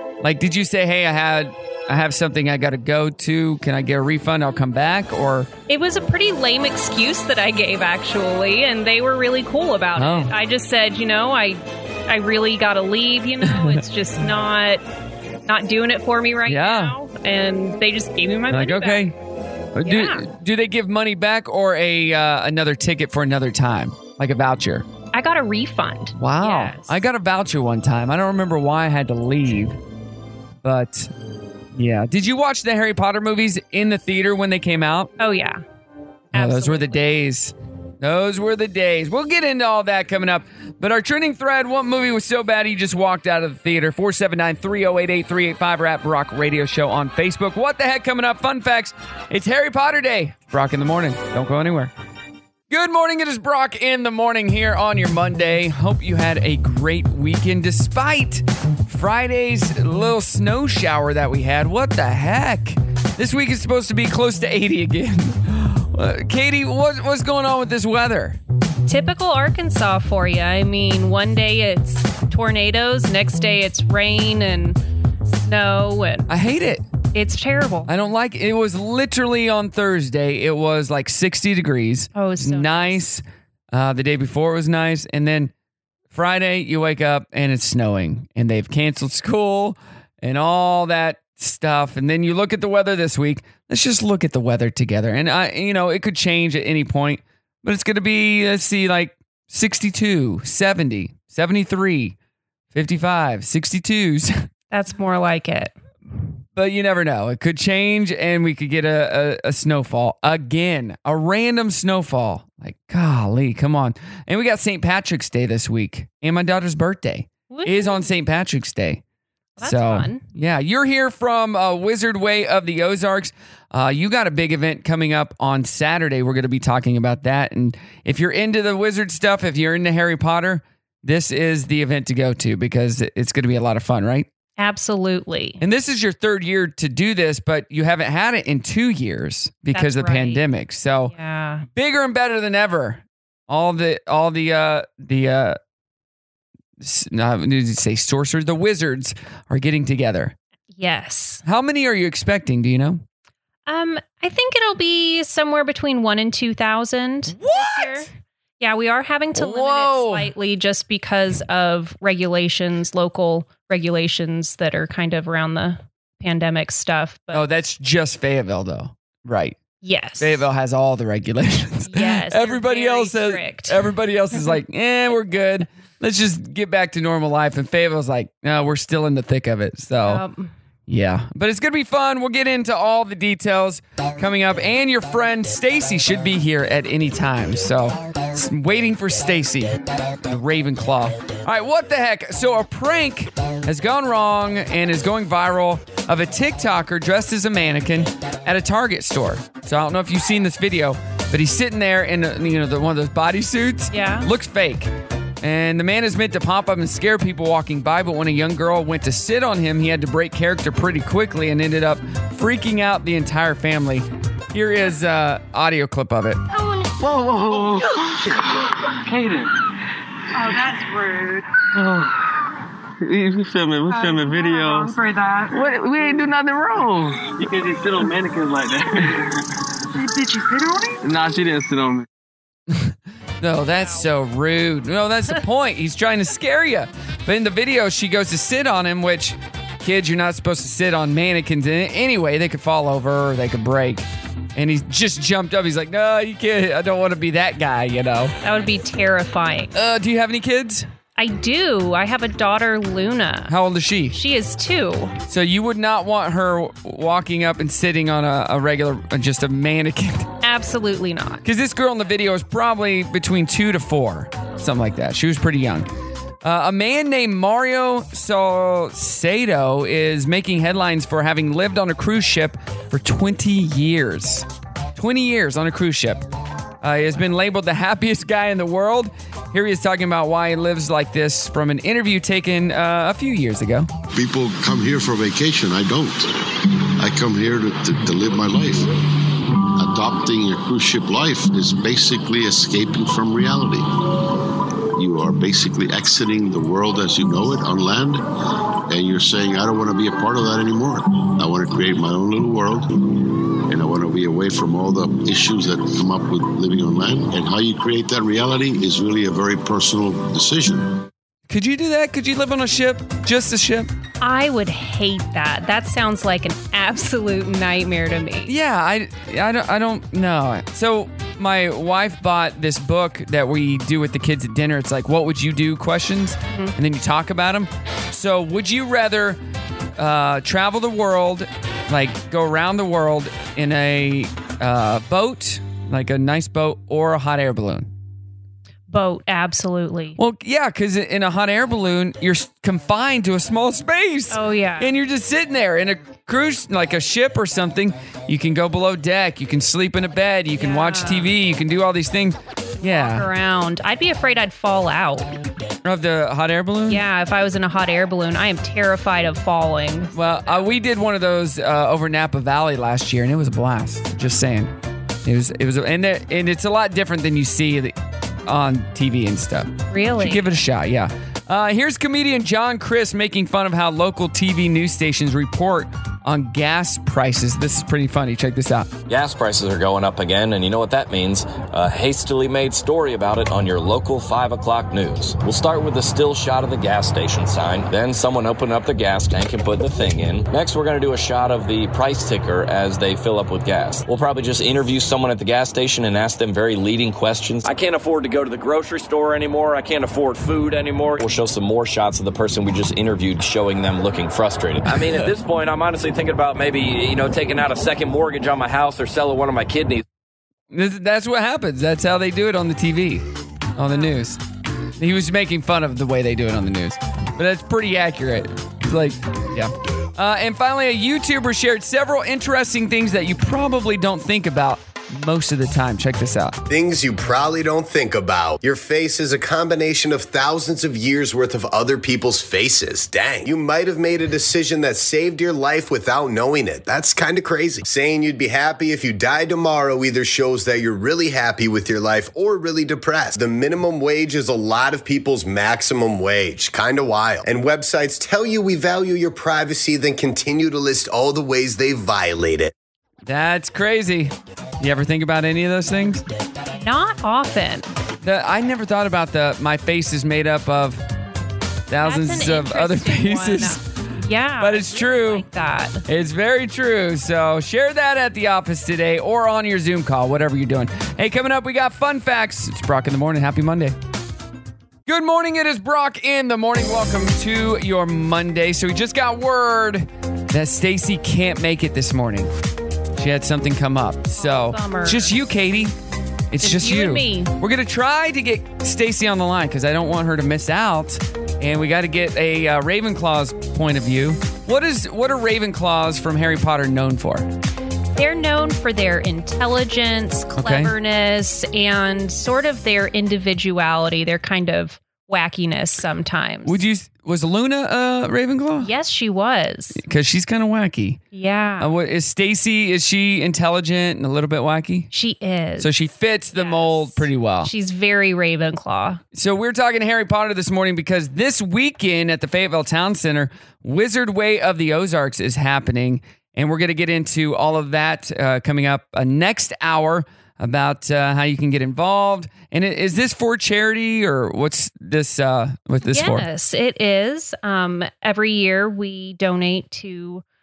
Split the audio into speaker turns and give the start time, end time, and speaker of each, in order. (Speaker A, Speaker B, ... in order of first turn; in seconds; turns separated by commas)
Speaker A: 0.2-5.5, Speaker B: 5.7-14.8, Speaker A: 10.0-10.3, Speaker A: 13.4-13.8, Speaker B: 15.5-19.1, Speaker A: 16.5-16.9, Speaker A: 18.5-19.1, Speaker A: 19.8-24.9, Speaker B: 19.8-20.2, Speaker B: 25.1-26.9, Speaker A: 26.2-29.8, Speaker A: 30.6-31.1, Speaker A: 31.8-35.1, Speaker B: 35.2-35.6, Speaker B: 36.3-37.1, Speaker A: 36.3-51.9, Speaker A: 52.7-68.4, Speaker B: 68.9-74.8, Speaker B: 75.4-76.3, Speaker A: 76.3-76.8, Speaker B: 77.1-77.9, Speaker A: 77.9-85.5, Speaker B: 82.2-83.0, Speaker A: 86.1-102.2, Speaker A: 102.7-104.5, Speaker B: 104.7-105.7, Speaker A: 106.5-119.0, Speaker B: 117.5-118.1, Speaker B: 119.6-120.2, Speaker A: 119.6-134.3, Speaker B: 134.6-135.6, Speaker A: 135.6-141.1, Speaker B: 139.7-140.4, Speaker B: 141.1-141.7, Speaker A: 141.8-145.6, Speaker A: 146.8-150.3, Speaker B: 150.8-151.4, Speaker A: 151.4-153.0, Speaker B: 153.7-158.1, Speaker A: 157.3-158.1, Speaker B: 158.6-167.4, Speaker A: 159.3-160.3, Speaker A: 167.3-169.6, Speaker B: 169.8-170.4, Speaker A: 170.2-180.2, Speaker B: 171.9-174.6, Speaker B: 180.0-180.5, Speaker A: 180.9-204.9, Speaker B: 203.9-204.3, Speaker A: 205.4-216.4, Speaker C: 216.6-216.9, Speaker D: 217.0-218.2, Speaker D: 219.0-219.6, Speaker C: 220.3-221.4, Speaker D: 221.7-222.3, Speaker D: 223.0-224.9, Speaker C: 223.9-225.6, Speaker D: 225.5-229.5, Speaker C: 230.0-231.0, Speaker D: 231.0-232.1, Speaker A: 232.7-248.3, Speaker B: 248.4-249.7, Speaker A: 249.7-250.9, Speaker B: 251.2-253.6, Speaker A: 253.5-254.2, Speaker B: 254.1-255.2, Speaker A: 255.3-260.3, Speaker B: 260.4-261.4, Speaker A: 261.4-265.9, Speaker A: 266.4-276.2, Speaker A: 276.8-283.9, Speaker E: 284.1-286.3, Speaker E: 287.0-288.9, Speaker E: 289.8-293.9, Speaker E: 294.9-298.2, Speaker E: 298.9-303.0, Speaker E: 303.7-311.1, Speaker A: 311.5-313.9, Speaker B: 314.2-318.5, Speaker A: 318.4-329.4, Speaker A: 330.0-337.9, Speaker B: 338.9-340.2, Speaker A: 340.2-353.2, Speaker B: 344.3-344.9, Speaker B: 350.6-351.4, Speaker B: 352.8-355.4, Speaker A: 355.9-357.0, Speaker B: 356.9-360.7, Speaker A: 360.1-364.7, Speaker A: 365.2-367.9, Speaker A: 368.5-378.9, Speaker B: 369.9-370.6, Speaker F: 379.1-410.0, Speaker A: 410.7-413.2, Speaker A: 413.8-414.4, Speaker B: 413.9-414.1, Speaker A: 415.0-426.6, Speaker G: 426.7-452.7, Speaker A: 453.2-456.2, Speaker B: 456.8-457.9, Speaker A: 458.2-461.0, Speaker A: 461.9-463.8, Speaker B: 462.0-466.0, Speaker A: 464.6-465.4, Speaker A: 466.1-473.9, Speaker A: 475.1-482.5, Speaker A: 483.2-485.9, Speaker B: 484.4-485.4, Speaker A: 486.5-497.5, Speaker B: 486.6-487.5, Speaker B: 498.2-506.8, Speaker A: 500.6-500.9, Speaker A: 506.6-508.9, Speaker B: 508.8-510.0, Speaker A: 510.0-511.2, Speaker B: 511.3-511.9, Speaker A: 511.8-515.1, Speaker B: 515.1-515.9, Speaker A: 515.8-517.7, Speaker B: 516.5-519.2, Speaker A: 519.3-536.5, Speaker B: 536.0-540.4